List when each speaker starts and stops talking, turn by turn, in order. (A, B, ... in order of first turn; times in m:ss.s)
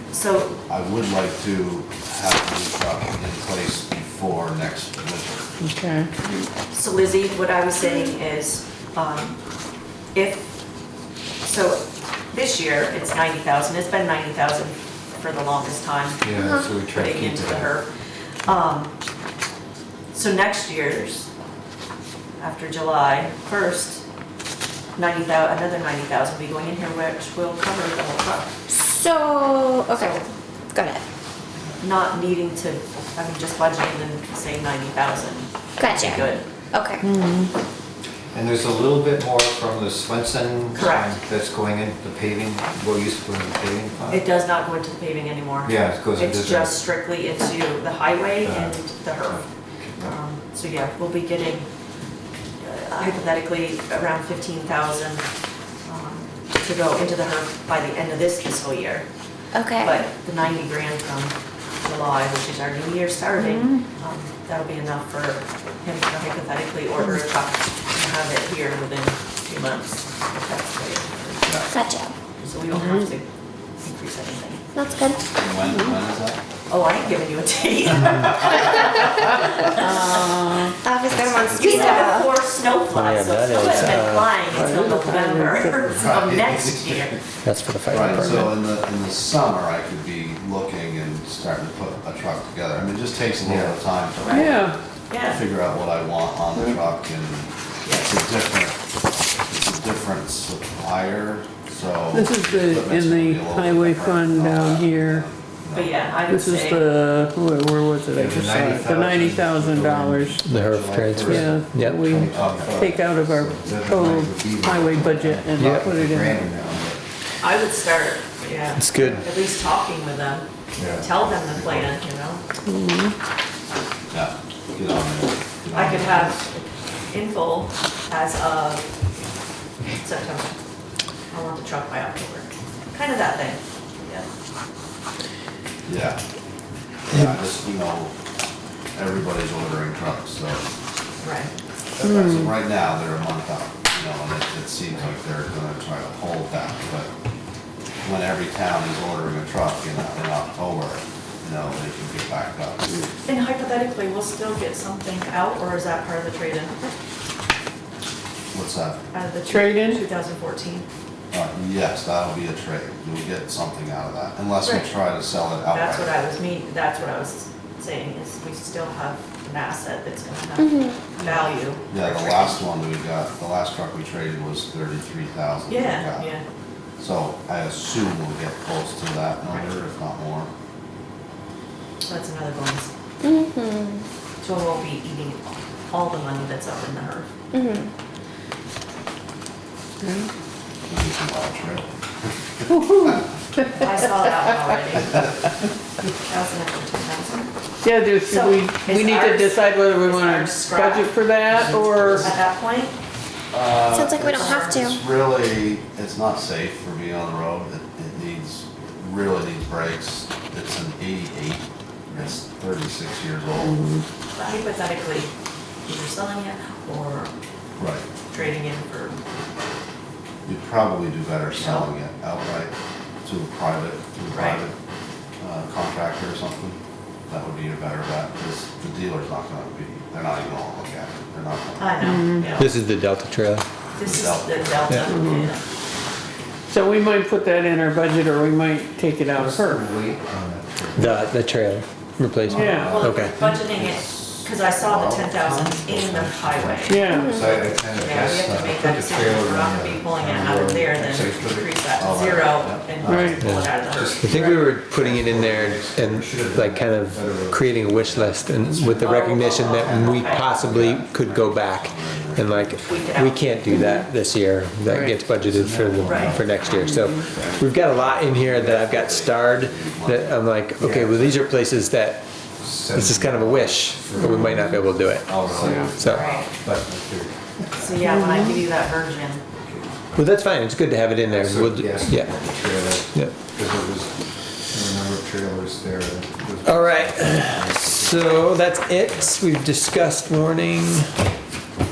0:00.1-0:00.6 A
0:00.7-0:05.5 B
0:05.6-0:06.1 C
0:06.7-0:09.4 A
0:10.1-0:10.5 A
0:11.4-0:17.9 A
0:16.2-0:17.7 D
0:18.5-0:18.9 A
0:20.1-0:21.3 A
0:22.4-0:24.0 A
0:25.0-0:28.5 A
0:28.7-0:30.2 E
0:29.9-0:30.2 A
0:30.7-0:31.0 E
0:31.6-0:31.8 B
0:31.8-0:36.4 A
0:35.8-0:37.0 E
0:37.0-0:37.5 C
0:38.3-0:44.3 D
0:40.7-0:41.2 A
0:44.1-0:49.4 A
0:45.6-0:46.8 D
0:48.4-0:48.8 D
0:50.0-0:51.7 A
0:52.6-0:55.3 A
0:55.8-0:59.1 A
0:59.5-1:00.0 E
0:59.8-1:11.6 A
1:03.4-1:03.8 C
1:11.4-1:11.7 B
1:11.7-1:12.1 E
1:12.4-1:13.3 A
1:12.7-1:13.1 C
1:13.8-1:14.7 A
1:14.8-1:15.2 E
1:15.3-1:16.4 B
1:16.7-1:20.5 A
1:20.7-1:22.3 E
1:21.2-1:27.2 A
1:21.4-1:22.1 B
1:22.9-1:24.5 F
1:24.5-1:26.0 C
1:25.7-1:27.2 B
1:27.4-1:28.6 F
1:27.9-1:34.7 B
1:33.4-1:33.8 D
1:34.2-1:35.4 A
1:34.3-1:34.8 C
1:35.3-1:38.8 B
1:37.8-1:38.1 A
1:39.5-1:46.0 B
1:42.1-1:45.3 C
1:45.7-1:47.0 A
1:46.3-1:50.4 C
1:48.1-1:57.0 D
1:50.4-1:52.1 F
1:51.3-1:56.5 C
1:52.3-1:52.9 B
1:55.6-1:55.9 F
1:57.4-2:02.4 A
1:58.7-1:59.3 F
2:00.8-2:01.0 B
2:00.8-2:01.0 D
2:02.6-2:03.1 C
2:04.1-2:06.4 B
2:05.7-2:08.9 A
2:10.0-2:10.6 A
2:11.3-2:14.3 A
2:15.9-2:16.2 B
2:17.0-2:18.1 B
2:19.0-2:20.7 B
2:21.2-2:21.5 A
2:22.0-2:27.1 B
2:22.0-2:22.5 C
2:28.0-2:33.0 B
2:33.2-2:36.9 A
2:38.5-2:39.0 B
2:39.1-2:40.9 A
2:39.5-2:40.0 C
2:41.3-2:46.1 B
2:44.6-2:44.9 A
2:45.7-2:52.6 A
2:50.6-2:51.0 E
2:51.2-2:56.3 B
2:55.7-2:56.4 A
2:57.0-3:00.5 B
2:59.5-2:59.9 A
3:02.0-3:02.9 A
3:03.2-3:04.0 E
3:04.4-3:07.3 A
3:07.5-3:07.9 E
3:10.9-3:11.9 B
3:12.6-3:13.2 B
3:13.8-3:15.5 A
3:16.1-3:17.5 A
3:17.8-3:22.3 C
3:18.2-3:21.1 A
3:21.6-3:22.3 B
3:21.9-3:22.9 A
3:23.5-3:33.9 B
3:23.9-3:25.0 E
3:32.1-3:32.4 A
3:33.6-3:34.0 C
3:34.3-3:35.3 A
3:35.9-3:37.3 A
3:37.8-3:38.1 B
3:38.3-3:39.2 A
3:40.5-3:44.8 B
3:41.5-3:41.9 A
3:44.3-3:44.6 A
3:45.4-3:46.8 B
3:47.3-3:52.5 B
3:51.8-3:52.7 A
3:52.0-3:52.5 C
3:52.6-3:53.7 F
3:54.0-3:55.6 A
3:54.0-3:55.1 B
3:55.1-3:55.5 C
3:56.7-3:59.8 C
3:59.3-4:01.3 D
4:01.0-4:03.4 F
4:02.5-4:06.9 B
4:02.5-4:03.0 C
4:02.7-4:14.4 A
4:06.8-4:07.4 C
4:07.1-4:07.6 E
4:07.1-4:12.4 D
4:12.0-4:12.9 B
4:13.0-4:19.2 D
4:13.0-4:13.4 C
4:13.4-4:32.2 F
4:19.0-4:20.5 A
4:19.4-4:23.2 B
4:22.8-4:23.8 A
4:25.5-4:30.4 B
4:26.0-4:26.4 A
4:30.8-4:31.4 D
4:32.6-4:34.6 D
4:32.9-4:36.3 F
4:35.3-4:38.2 D
4:36.0-4:36.5 A
4:36.2-4:36.4 B
4:37.8-4:39.4 A
4:38.1-4:38.5 C
4:40.2-4:42.3 F
4:41.3-4:44.2 D
4:44.7-4:48.4 D
4:46.6-4:51.1 F